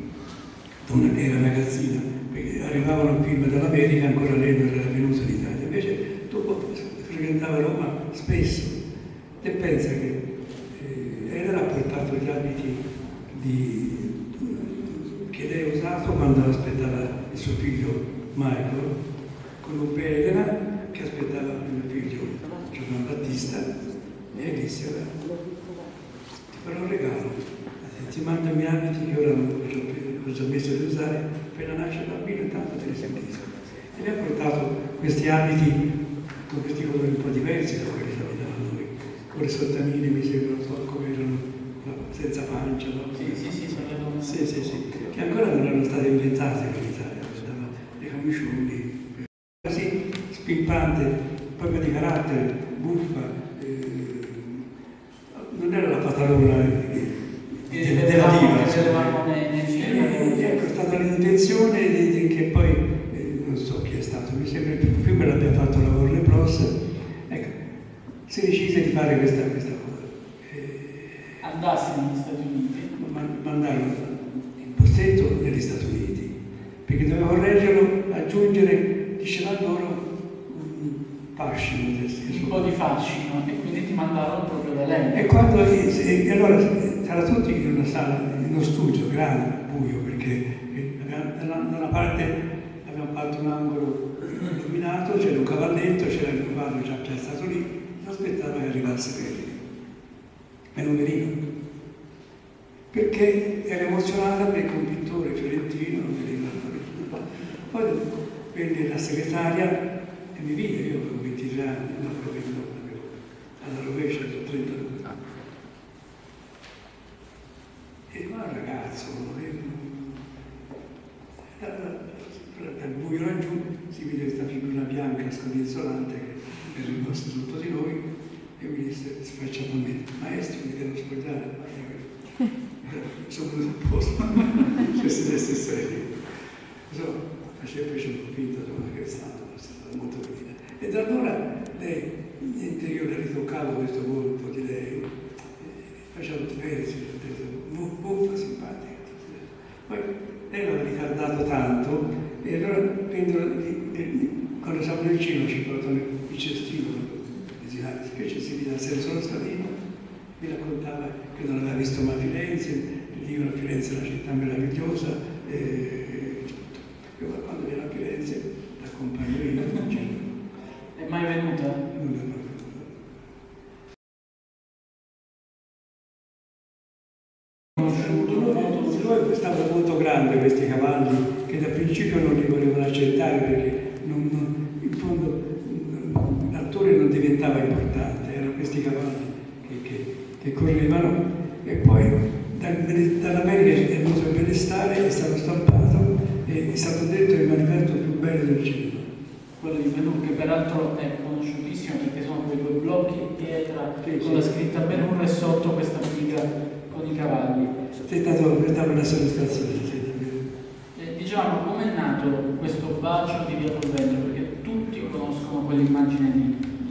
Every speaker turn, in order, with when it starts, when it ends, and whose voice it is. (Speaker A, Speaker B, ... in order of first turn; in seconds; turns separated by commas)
Speaker A: 0.8-8.8, Speaker A: 9.4-19.0, Speaker A: 19.6-23.7, Speaker A: 24.3-25.2, Speaker A: 26.5-35.9, Speaker A: 36.5-43.6, Speaker B: 43.2-44.5, Speaker A: 44.2-54.6, Speaker A: 55.3-59.2, Speaker B: 57.7-60.7, Speaker A: 59.8-66.8, Speaker A: 67.3-67.5, Speaker A: 68.3-71.4, Speaker B: 71.4-72.9, Speaker A: 73.0-76.3, Speaker A: 76.9-82.7, Speaker B: 82.3-85.3, Speaker A: 85.1-99.6, Speaker A: 100.7-101.4, Speaker A: 102.9-115.2, Speaker A: 118.1-120.2, Speaker A: 121.6-128.0, Speaker A: 128.6-132.1, Speaker A: 132.8-136.2, Speaker A: 136.9-159.7, Speaker A: 160.4-170.3, Speaker B: 171.0-171.8, Speaker A: 171.9-172.9, Speaker A: 177.8-199.1, Speaker B: 177.8-179.1, Speaker B: 199.6-207.7, Speaker A: 204.0-205.0, Speaker A: 208.1-210.4, Speaker B: 210.9-216.6